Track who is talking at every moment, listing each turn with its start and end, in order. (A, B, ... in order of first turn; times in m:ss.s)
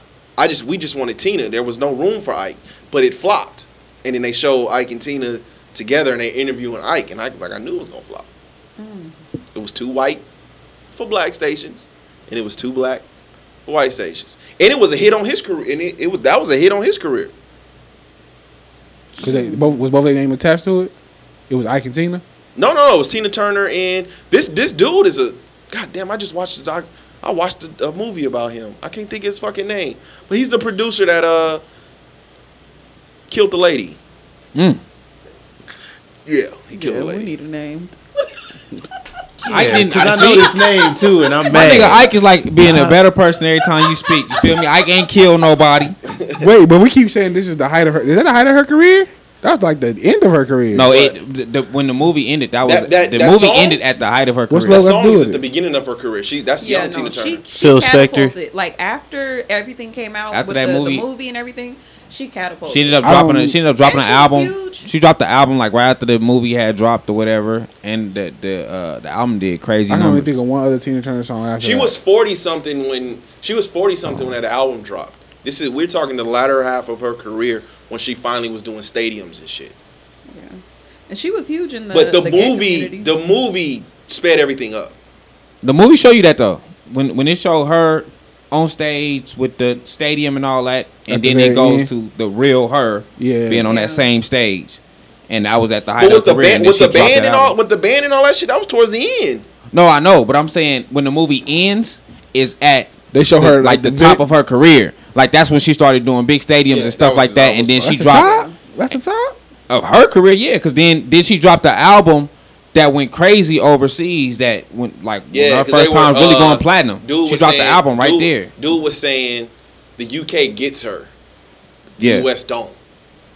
0:00.4-0:08.3 A
0:08.8-0:09.2 B
0:09.5-0:10.2 A
0:10.9-0:13.1 A
0:13.7-0:17.3 A
0:19.2-0:20.9 C
0:19.2-0:19.6 B
0:21.5-0:22.2 C
0:22.6-0:31.6 A
0:33.3-0:34.0 A
0:34.6-0:34.8 D
0:36.2-0:37.3 A
0:36.7-0:37.9 B
0:39.4-0:43.0 E
0:39.4-0:40.7 D
0:41.5-0:46.0 D
0:46.1-0:46.4 A
0:46.4-0:50.9 C
0:50.7-0:54.9 D
0:50.9-0:51.2 A
0:52.6-0:53.8 A
0:54.5-0:55.4 C
0:54.7-0:57.4 A
0:56.6-1:03.0 B
0:57.6-0:58.3 E
1:00.3-1:01.0 D
1:02.7-1:10.4 D
1:03.0-1:03.6 C
1:03.8-1:04.9 B
1:09.9-1:12.0 C
1:11.6-1:19.8 A
1:20.3-1:23.1 B
1:21.9-1:25.0 A
1:25.6-1:37.6 D
1:31.1-1:31.9 C
1:33.2-1:33.7 C
1:33.6-1:34.1 B
1:36.0-1:39.5 A
1:39.7-1:48.3 D
1:43.1-1:44.2 C
1:46.7-1:47.9 A
1:47.8-1:49.4 C
1:48.1-1:48.6 B
1:49.7-1:58.5 D
1:55.3-2:01.1 A
2:02.0-2:02.8 A
2:02.0-2:02.3 D